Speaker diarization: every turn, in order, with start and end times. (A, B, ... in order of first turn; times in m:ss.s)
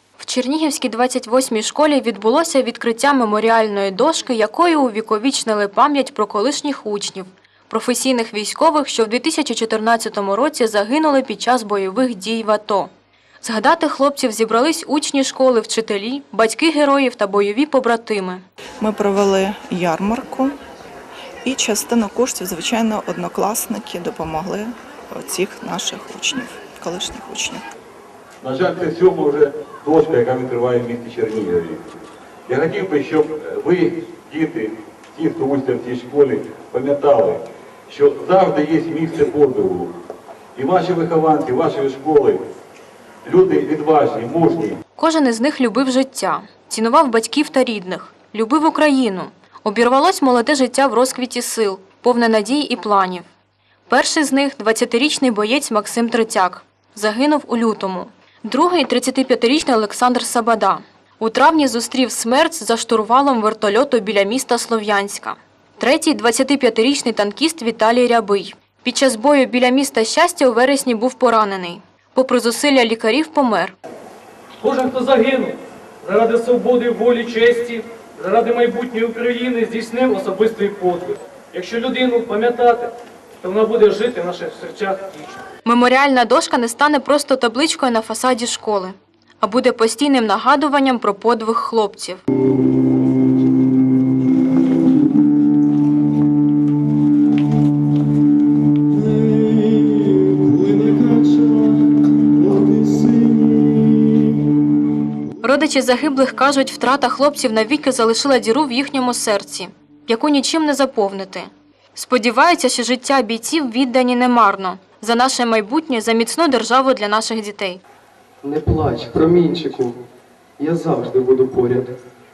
0:00.2-0:12.9 A
0:13.4-0:18.4 A
0:18.8-0:20.6 B
0:21.4-0:27.6 B
0:28.4-0:31.8 C
0:32.5-0:39.9 C
0:40.6-0:42.4 C
0:43.2-0:44.8 C
0:45.0-0:53.2 A
0:53.9-1:13.7 A
1:14.6-1:25.4 D
1:25.6-1:32.2 A
1:40.8-1:41.1 D
1:45.4-1:57.8 A
1:58.4-2:00.0 E
2:00.6-2:01.9 E